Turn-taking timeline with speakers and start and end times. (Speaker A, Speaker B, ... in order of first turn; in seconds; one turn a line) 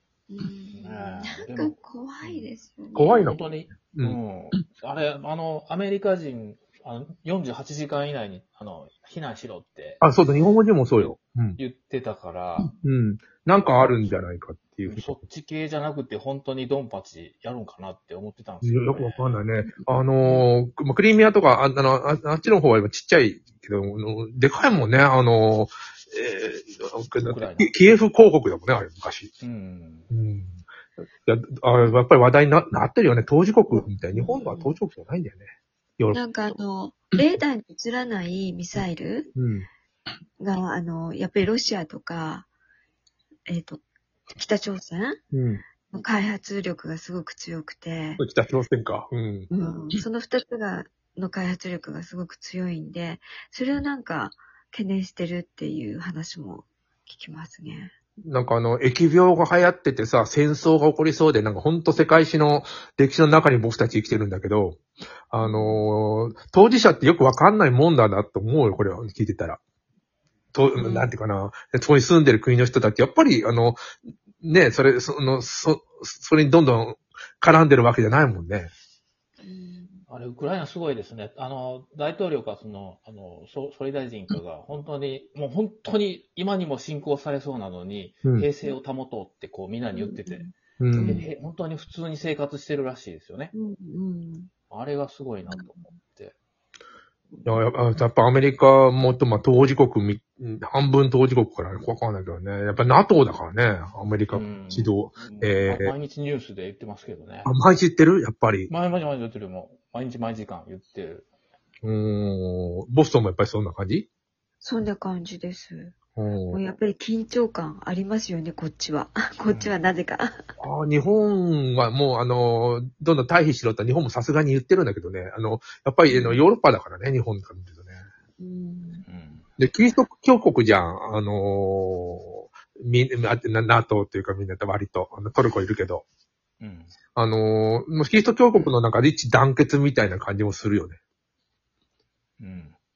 Speaker A: 0.3-3.3
Speaker B: 0.7-2.5
Speaker C: 3.0-3.4
Speaker B: 3.1-10.0
Speaker C: 3.9-4.2
Speaker C: 10.0-11.6
Speaker B: 11.0-12.8
Speaker C: 12.6-15.2
Speaker B: 13.6-14.2
Speaker B: 14.8-19.4
Speaker C: 18.6-29.3
Speaker A: 19.6-20.4
Speaker B: 27.2-27.7
Speaker B: 29.4-30.1
Speaker C: 30.1-30.6
Speaker C: 31.2-36.3
Speaker A: 34.1-34.8
Speaker A: 36.1-39.3
Speaker C: 39.4-39.7
Speaker A: 40.4-42.5
Speaker A: 43.5-43.8
Speaker A: 44.4-45.2
Speaker C: 45.3-45.6
Speaker A: 45.9-48.2
Speaker C: 48.2-50.0
Speaker A: 49.5-57.9
Speaker C: 58.3-64.8
Speaker C: 65.3-69.6
Speaker A: 65.4-65.8
Speaker C: 70.5-73.8
Speaker A: 70.8-71.1
Speaker C: 74.4-78.7
Speaker A: 79.4-80.0
Speaker B: 80.1-90.5
Speaker A: 89.9-91.3
Speaker C: 90.8-91.2
Speaker B: 91.0-93.5
Speaker A: 93.5-94.5
Speaker B: 94.7-96.4
Speaker C: 97.5-105.9
Speaker B: 104.3-107.5
Speaker C: 107.5-108.7
Speaker B: 108.7-111.3
Speaker C: 111.8-114.1
Speaker A: 114.6-116.0
Speaker C: 116.2-116.6
Speaker A: 116.5-120.5
Speaker B: 119.5-119.7
Speaker C: 120.6-128.0
Speaker A: 126.1-126.4
Speaker A: 128.4-129.1
Speaker B: 129.1-129.5
Speaker C: 129.6-136.1
Speaker B: 136.6-136.9
Speaker C: 137.2-141.0
Speaker B: 142.4-142.8